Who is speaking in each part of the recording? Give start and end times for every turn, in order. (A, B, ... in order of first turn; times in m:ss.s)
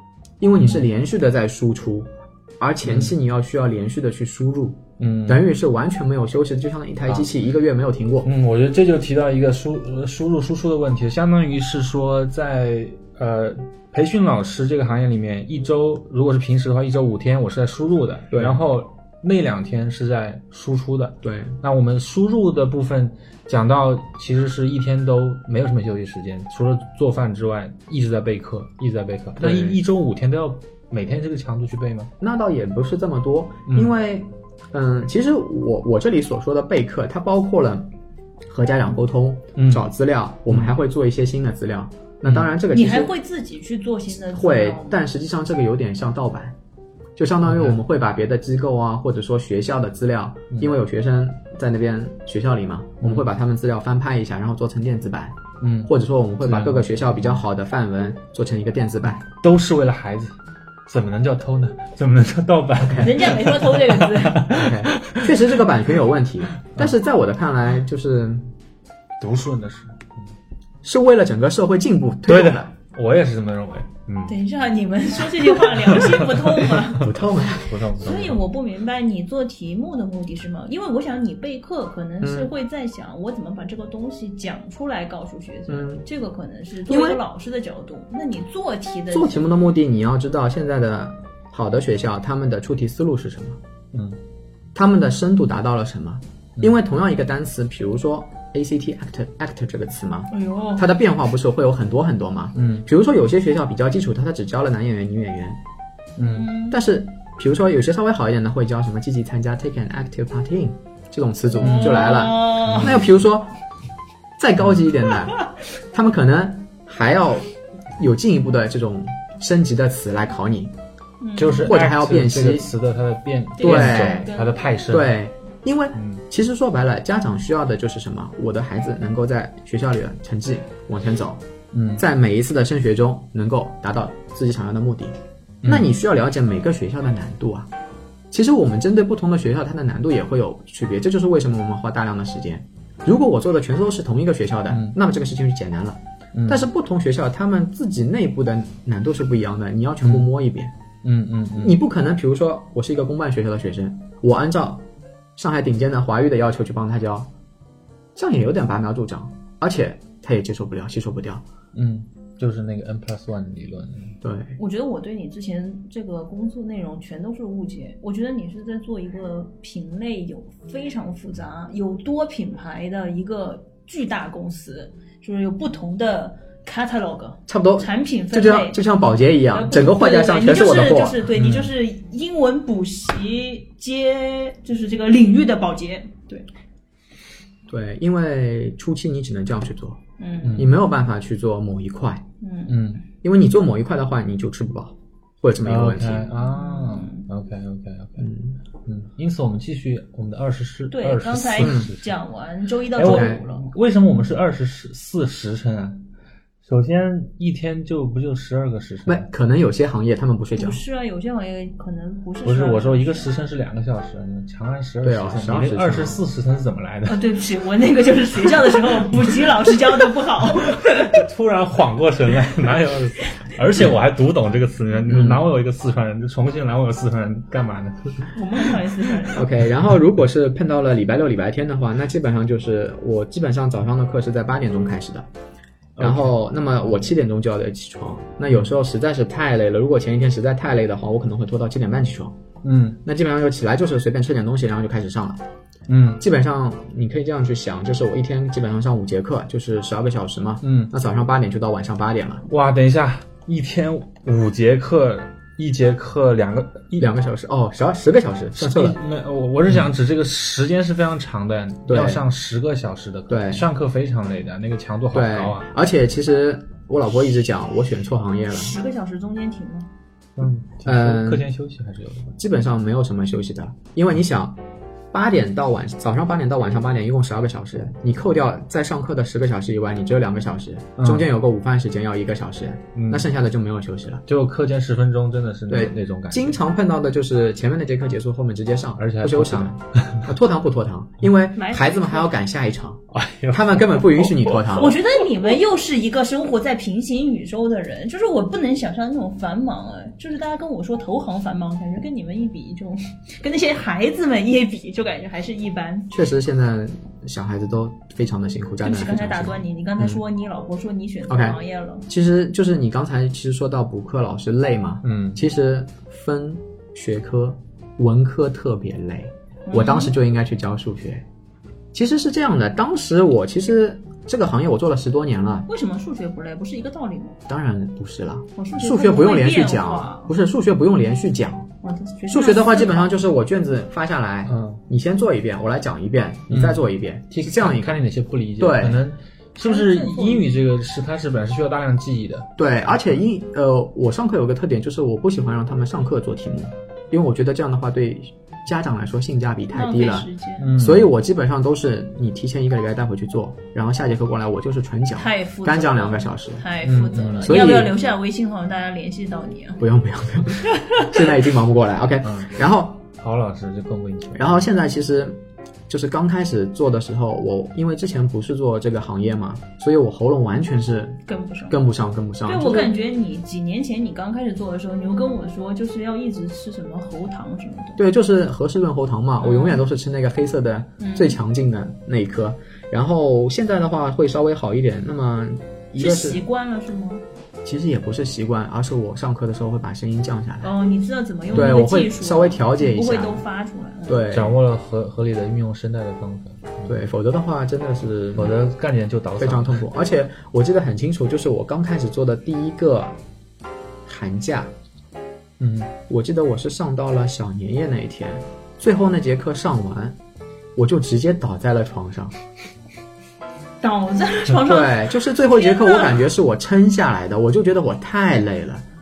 0:00.4-0:08.3 A
0:00.6-0:00.8 B
0:02.8-0:03.1 B
0:05.0-0:05.5 B
0:08.2-0:32.1 B
0:18.3-0:18.6 A
0:21.2-0:21.6 A
0:29.4-0:29.8 A
0:32.2-0:37.9 A
0:33.7-0:33.9 B
0:38.5-0:43.1 A
0:39.6-0:39.9 B
0:42.2-0:42.5 B
0:42.7-0:45.0 C
0:44.3-0:46.6 A
0:47.2-0:59.2 A
0:47.4-0:47.8 B
0:53.0-0:53.3 B
0:55.6-0:55.9 B
0:56.4-0:57.4 B
0:59.4-1:00.4 B
1:00.9-1:05.4 B
1:02.8-1:03.2 A
1:03.0-1:04.5 C
1:04.5-1:08.5 A
1:09.2-1:10.2 B
1:10.8-1:12.7 A
1:12.3-1:14.4 B
1:14.3-1:17.1 C
1:15.6-1:16.8 B
1:17.0-1:17.8 A
1:17.5-1:18.4 B
1:18.0-1:29.5 C
1:22.2-1:22.5 A
1:25.7-1:26.0 A
1:26.8-1:27.2 A
1:29.1-1:33.6 A
1:33.9-1:34.2 B
1:34.7-1:45.6 A
1:40.3-1:40.9 C
1:42.6-1:42.9 B
1:46.2-1:46.5 B
1:46.2-1:46.8 C
1:46.7-1:53.5 A
1:51.6-1:53.0 C
1:51.6-1:52.1 B
1:52.6-1:53.1 B
1:54.4-1:57.5 A
1:58.0-2:00.7 A
2:01.2-2:01.8 C
2:01.4-2:05.2 B
2:01.6-2:02.7 A
2:03.6-2:04.8 C
2:03.6-2:04.3 A
2:04.9-2:11.4 A
2:05.9-2:06.2 B
2:11.7-2:12.0 B
2:12.0-2:17.7 A
2:15.6-2:15.9 B
2:18.3-2:30.7 A
2:24.7-2:25.0 B
2:26.3-2:26.7 B
2:31.0-2:31.8 B
2:31.6-2:37.3 A
2:38.1-2:41.4 A
2:41.7-2:44.2 B
2:44.2-2:44.6 A
2:44.6-2:58.8 C
2:57.5-3:01.2 A
2:59.5-3:06.4 C
3:01.3-3:01.7 B
3:07.7-3:10.0 A
3:10.2-3:10.7 C
3:10.4-3:10.7 B
3:10.6-3:12.2 A
3:12.4-3:12.9 C
3:12.7-3:13.0 B
3:13.2-3:16.3 A
3:15.6-3:18.3 B
3:16.3-3:17.2 C
3:18.2-3:18.6 A
3:18.8-3:22.2 B
3:20.9-3:23.7 C
3:21.6-3:21.9 A
3:23.0-3:26.0 B
3:23.0-3:23.4 A
3:26.6-3:29.3 B
3:29.0-3:30.8 A
3:30.5-3:33.3 C
3:32.4-3:37.3 B
3:35.0-3:36.2 A
3:37.0-3:41.0 C
3:40.4-3:48.8 B
3:45.0-3:45.4 A
3:48.3-3:49.5 C
3:49.3-3:55.3 A
3:56.0-3:56.4 B
3:56.0-4:02.4 A
4:02.6-4:03.0 B
4:03.0-4:05.4 A
4:05.9-4:06.2 B
4:06.2-4:12.4 A
4:10.6-4:10.9 B
4:12.5-4:17.1 B
4:17.0-4:19.0 A
4:18.5-4:25.7 B
4:21.9-4:22.2 A
4:23.3-4:23.7 A
4:25.1-4:28.7 A
4:28.5-4:29.9 C
4:30.4-4:32.3 B
4:30.8-4:31.5 A
4:32.4-4:44.2 A
4:41.0-4:41.3 B
4:42.9-4:43.3 B
4:44.3-4:46.6 B
4:45.7-4:55.0 A
4:49.0-4:50.3 B
4:51.5-4:52.4 C
4:53.1-4:54.7 B
4:54.7-5:06.1 C
5:06.1-5:10.2 A
5:08.8-5:12.1 C
5:11.3-5:21.2 A
5:15.0-5:15.4 B
5:19.6-5:20.1 C
5:21.9-5:25.7 A
5:25.7-5:27.4 C
5:27.5-5:31.7 A
5:28.6-5:30.3 C
5:31.8-5:33.2 C
5:32.3-5:38.0 A
5:34.4-5:34.8 B
5:36.5-5:42.5 B
5:38.6-5:39.0 A
5:39.6-5:40.5 C
5:42.6-5:56.6 A
5:49.7-5:50.7 C
5:50.6-5:51.1 B
5:55.1-5:59.8 C
5:56.8-5:57.6 B
5:57.4-5:57.9 A
5:59.8-6:03.0 A
6:00.8-6:01.0 C
6:02.2-6:02.5 B
6:03.2-6:04.6 B
6:04.3-6:13.0 A
6:11.2-6:11.8 C
6:12.4-6:18.0 C
6:18.0-6:26.4 A
6:19.4-6:19.8 C
6:21.0-6:21.4 C
6:26.0-6:27.2 C
6:27.6-6:30.7 A
6:30.6-6:34.3 C
6:31.5-6:33.4 A
6:34.1-6:34.6 A
6:34.3-6:37.0 B
6:36.8-6:38.6 A
6:38.4-6:39.8 B
6:39.4-6:43.2 A
6:44.0-6:44.7 A
6:45.6-6:45.9 B
6:46.1-6:50.2 A
6:50.8-6:52.3 A
6:53.8-6:56.3 C
6:54.5-6:58.8 A